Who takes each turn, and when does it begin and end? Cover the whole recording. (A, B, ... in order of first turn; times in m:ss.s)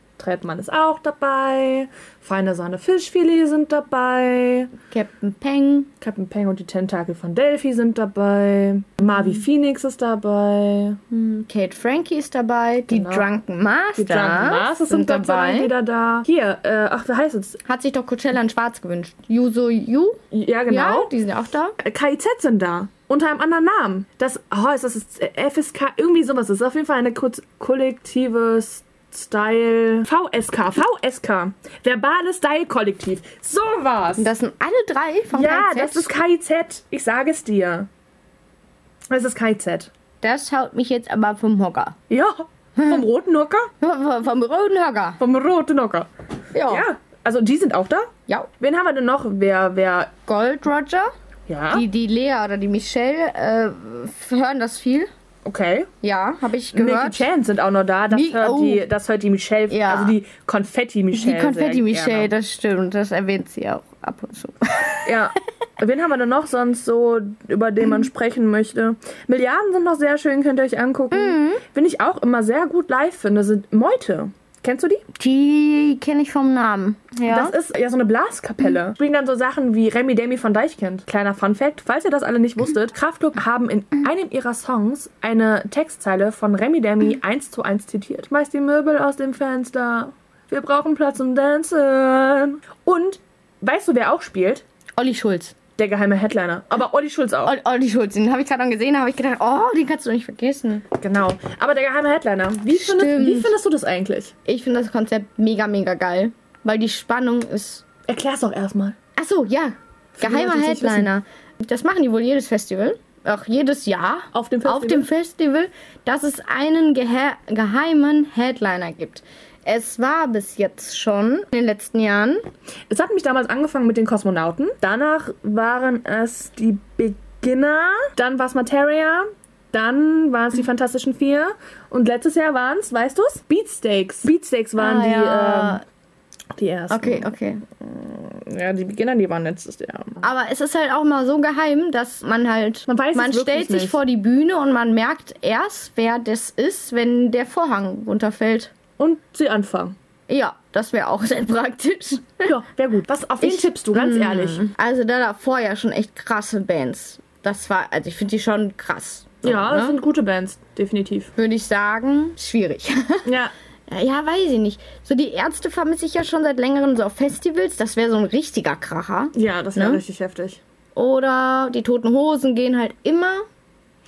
0:00.2-0:04.7 A
0:04.9-0:05.9 B
0:06.0-0:11.0 A
0:11.1-0:15.7 B
0:12.9-0:13.2 A
0:13.9-0:17.6 A
0:17.7-0:21.7 B
0:20.3-0:21.1 A
0:21.8-0:34.3 A
0:34.2-0:36.1 B
0:35.3-0:37.9 A
0:39.1-0:39.9 A
0:40.2-0:42.0 B
0:42.1-0:43.7 A
0:43.8-0:45.2 B
0:45.2-0:46.1 A
0:46.5-0:46.9 B
0:46.7-0:50.1 A
0:50.2-0:51.1 B
0:51.5-0:51.8 A
0:51.7-0:55.1 B
0:55.4-0:55.9 A
0:56.0-0:57.3 B
0:56.7-1:02.3 A
0:58.1-0:58.8 B
0:59.7-1:00.2 B
1:01.1-1:05.1 B
1:05.0-1:15.0 A
1:11.1-1:11.6 B
1:15.2-1:17.5 B
1:17.3-1:34.6 A
1:35.0-1:35.5 B
1:35.8-1:37.5 A
1:37.4-1:40.8 B
1:41.0-1:44.3 A
1:42.7-1:43.5 B
1:44.4-1:47.8 B
1:48.0-1:49.0 A
1:49.2-2:02.5 B
1:50.2-1:51.1 A
1:54.3-1:55.1 A
2:02.9-2:15.8 A
2:14.8-2:15.8 B
2:16.5-2:20.3 A
2:16.9-2:17.6 B
2:20.2-2:28.7 B
2:22.9-2:24.0 A
2:29.0-2:29.9 A
2:30.3-2:32.5 B
2:32.4-2:34.7 A
2:33.4-2:40.0 B
2:39.4-2:41.3 A
2:41.4-2:43.2 B
2:43.2-2:43.5 A
2:43.9-2:50.0 B
2:49.3-2:50.6 A
2:51.0-2:53.4 B